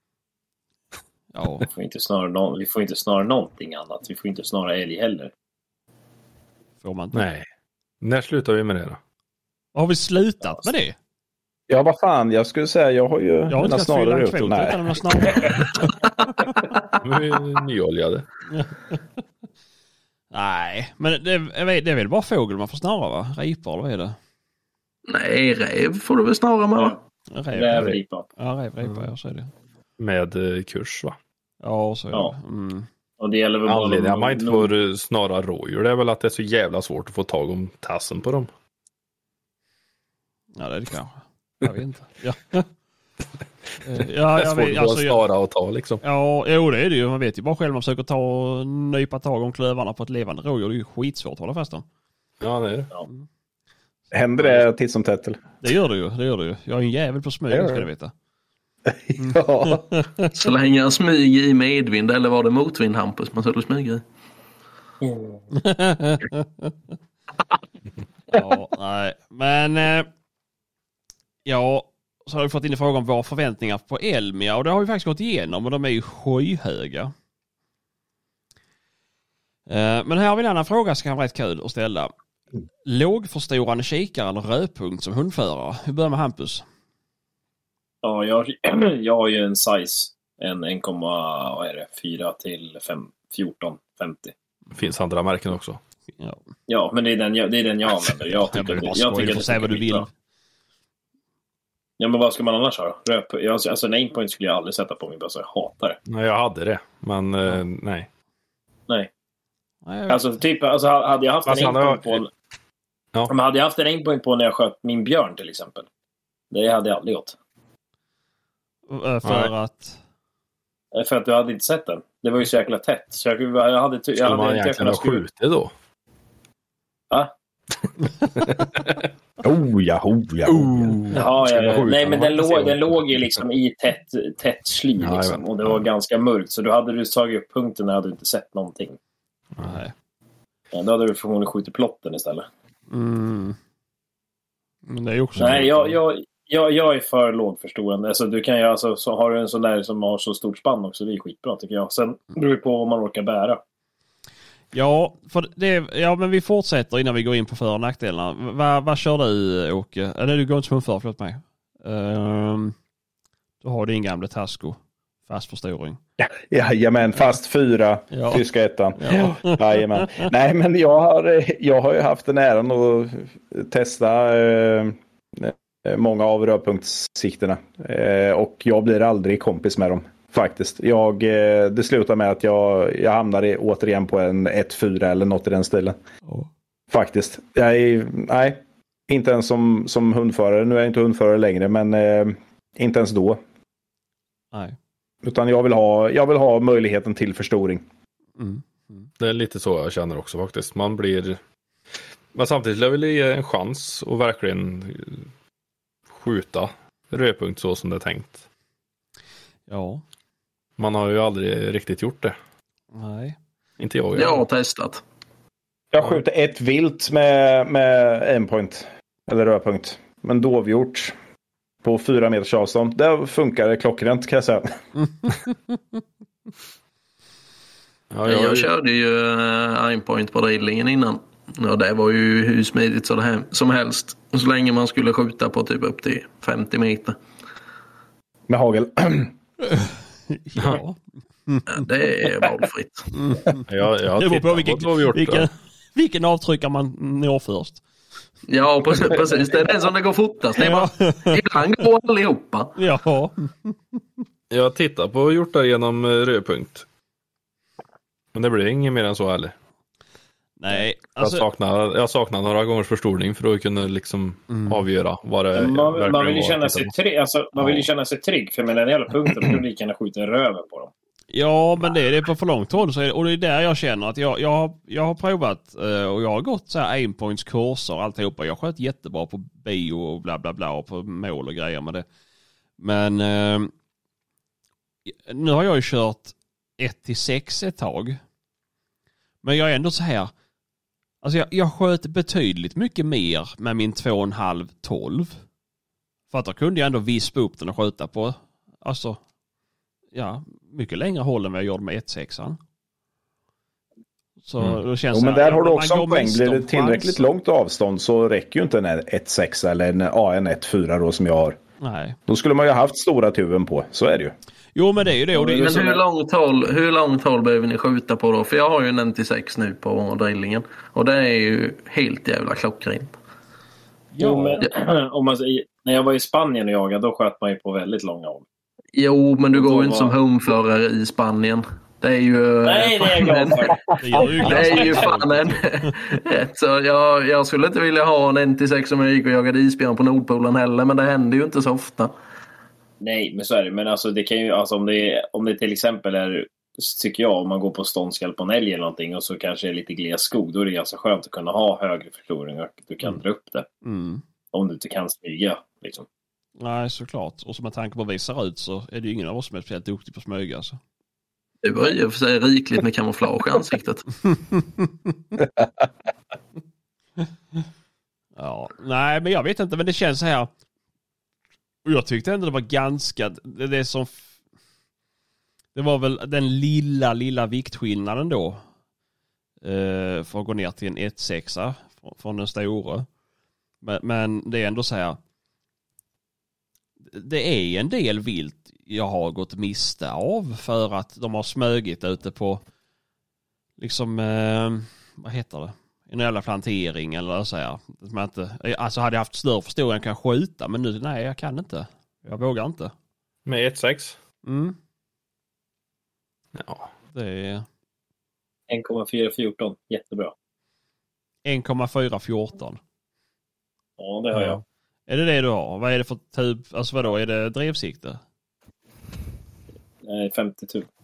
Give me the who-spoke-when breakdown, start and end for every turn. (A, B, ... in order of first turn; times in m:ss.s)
0:01.3-0:01.7 A
0:01.7-0:05.3 B
0:06.8-0:07.2 A
0:07.1-0:07.4 C
0:08.0-0:09.0 C
0:09.7-0:11.0 A
0:11.7-0:15.3 D
0:13.5-0:15.6 A
0:17.0-0:18.3 C
0:18.5-0:19.0 A
0:20.3-0:24.2 A
0:25.1-0:27.0 E
0:27.3-0:29.5 A
0:27.5-0:28.3 B
0:30.0-0:31.2 C
0:31.6-0:32.9 A
0:33.2-0:34.7 B
0:33.6-0:38.5 C
0:40.6-0:42.6 A
0:43.8-0:45.2 A
0:44.4-0:46.0 C
0:46.0-0:51.8 A
0:52.4-0:52.9 C
0:54.1-0:55.4 D
0:55.6-0:58.1 A
0:57.5-0:57.9 D
0:58.9-0:59.8 D
0:59.2-1:00.3 A
1:00.3-1:04.0 E
1:05.0-1:05.4 B
1:05.5-1:06.7 A
1:08.3-1:10.1 A
1:11.4-1:17.1 A
1:19.7-1:22.1 A
1:22.8-1:26.6 A
1:28.0-1:34.3 B
1:34.7-1:35.8 C
1:36.7-1:40.1 B
1:38.5-1:40.1 A
1:42.0-1:46.0 B
1:46.1-1:48.1 C
1:49.8-1:50.4 A
1:50.1-1:52.3 B
1:51.4-1:52.2 C
1:53.3-1:55.8 B
1:56.5-1:57.4 B
1:58.9-2:00.0 A
1:59.2-1:59.5 C
2:00.9-2:05.2 B
2:04.2-2:05.7 C
2:08.4-2:09.0 C
2:09.4-2:11.0 D
2:10.4-2:13.4 C
2:11.1-2:19.0 B
2:15.0-2:15.8 C
2:19.6-2:19.9 A
2:20.7-2:22.5 B
2:22.9-2:23.6 A
2:24.9-2:25.9 A
2:25.4-2:33.6 B
2:34.7-2:42.7 A
2:43.6-2:46.0 A
2:46.2-3:06.0 D
2:48.1-2:48.4 A
2:49.0-2:50.3 A
3:06.9-3:13.4 D
3:15.2-3:17.8 D
3:18.4-3:19.1 A
3:19.2-3:21.4 C
3:22.3-3:25.2 C
3:26.1-3:28.4 C
3:29.7-3:30.0 A
3:30.8-3:32.4 C
3:32.9-3:33.4 A
3:33.8-3:34.4 C
3:34.2-3:35.0 E
3:35.9-3:41.1 D
3:41.8-3:44.7 D
3:48.1-3:48.7 C
3:48.2-3:57.2 E
3:58.5-3:59.3 D
3:59.7-4:01.8 A
4:01.7-4:03.1 E
4:03.1-4:03.6 A
4:03.7-4:05.5 C
4:04.2-4:07.8 A
4:08.5-4:12.7 E
4:10.6-4:11.8 A
4:12.8-4:14.0 A
4:14.5-4:16.8 C
4:18.3-4:19.5 C
4:20.6-4:21.4 A
4:21.2-4:26.9 C
4:24.5-4:24.8 A
4:25.5-4:30.9 B
4:27.6-4:27.9 A
4:31.3-4:42.0 A
4:42.8-4:43.7 A
4:45.1-4:48.2 A
4:49.4-4:50.3 A
4:51.2-4:55.4 A
4:56.3-4:59.2 A
5:00.1-5:02.6 A
5:04.4-5:07.2 A
5:05.1-5:11.6 D
5:11.8-5:12.2 A
5:12.3-5:14.4 D
5:14.7-5:15.9 A
5:15.3-5:16.0 B
5:15.6-5:23.1 E
5:24.1-5:24.6 A
5:24.2-5:28.4 B
5:28.9-5:33.7 E
5:29.5-5:30.2 B
5:32.6-5:35.2 B
5:34.0-5:36.1 A
5:34.4-5:42.1 E
5:43.0-5:53.7 B
5:53.8-5:54.2 A
5:54.5-5:56.0 B
5:56.6-6:00.8 A
6:01.6-6:04.0 E
6:04.4-6:05.1 A
6:08.4-6:10.5 A
6:11.8-6:14.3 A
6:15.7-6:18.6 A
6:19.6-6:23.1 A
6:23.8-6:25.2 A
6:27.1-6:32.6 A
6:33.8-6:42.9 A
6:43.4-6:44.2 C
6:44.4-6:44.8 A
6:46.6-6:46.9 C
6:47.1-6:47.6 A
6:48.7-6:50.3 B
6:51.4-6:52.8 A
6:54.0-6:54.6 B
6:55.1-6:58.2 A
7:00.0-7:00.9 B